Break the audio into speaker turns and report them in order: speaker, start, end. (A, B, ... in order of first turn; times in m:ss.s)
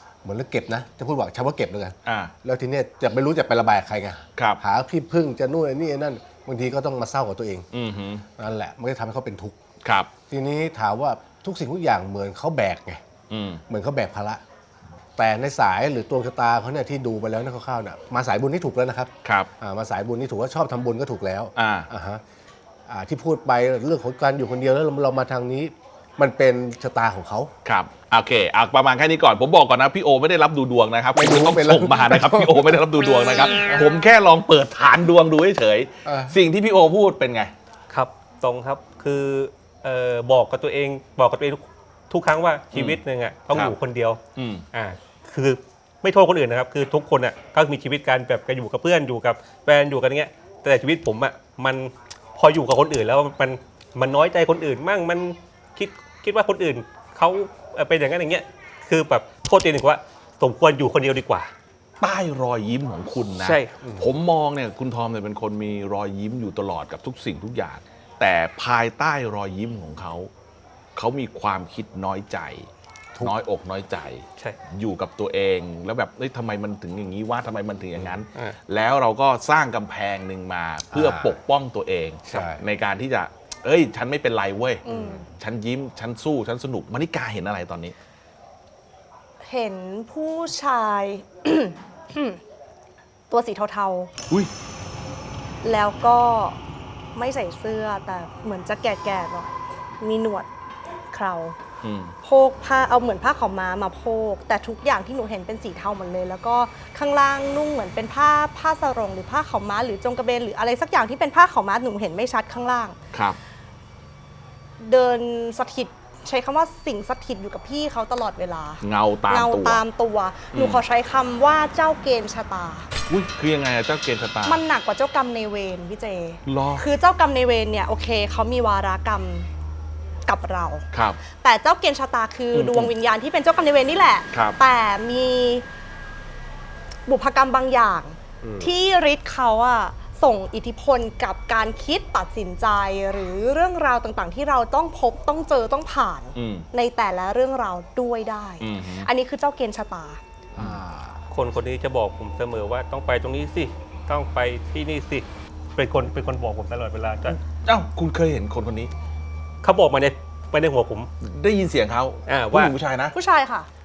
0:00.2-0:07.7 A
0:02.0-0:02.3 B
0:07.7-0:08.2 B
0:08.4-0:09.6 A
0:09.8-0:10.1 B
0:10.3-0:13.0 A
0:13.3-0:13.6 B
0:13.7-0:14.4 A
0:15.2-0:22.2 A
0:21.6-0:21.9 B
0:22.9-0:27.5 A
0:27.6-0:37.5 B
0:31.1-0:32.8 A
0:33.5-0:33.9 A
0:36.0-0:36.4 A
0:37.9-0:44.2 C
0:42.7-0:43.0 B
0:44.4-0:44.6 B
0:44.7-1:01.5 C
1:02.0-1:10.3 B
1:03.4-1:03.7 C
1:03.8-1:04.1 A
1:11.0-1:12.7 B
1:13.2-1:27.9 B
1:20.9-1:21.4 A
1:22.3-1:22.6 A
1:24.8-1:25.2 D
1:24.9-1:25.2 A
1:29.4-1:32.4 D
1:33.3-1:34.1 D
1:35.6-1:36.6 D
1:37.1-1:40.5 D
1:41.1-1:41.6 D
1:41.8-1:42.1 B
1:42.2-1:53.0 D
1:53.1-1:53.4 B
1:54.8-2:02.9 D
1:58.8-1:59.8 B
2:00.5-2:00.8 B
2:03.1-2:04.6 B
2:04.4-2:09.5 D
2:06.4-2:06.8 B
2:10.3-2:15.6 D
2:10.9-2:11.2 B
2:12.5-2:12.9 B
2:14.3-2:14.6 B
2:17.1-2:30.2 D
2:18.4-2:18.7 A
2:26.3-2:26.7 B
2:28.6-2:29.1 B
2:30.6-2:31.2 A
2:31.3-2:35.2 C
2:35.8-2:37.4 C
2:37.3-2:38.9 B
2:39.6-2:41.1 C
2:41.2-2:43.1 B
2:42.3-2:42.7 C
2:43.1-2:43.7 D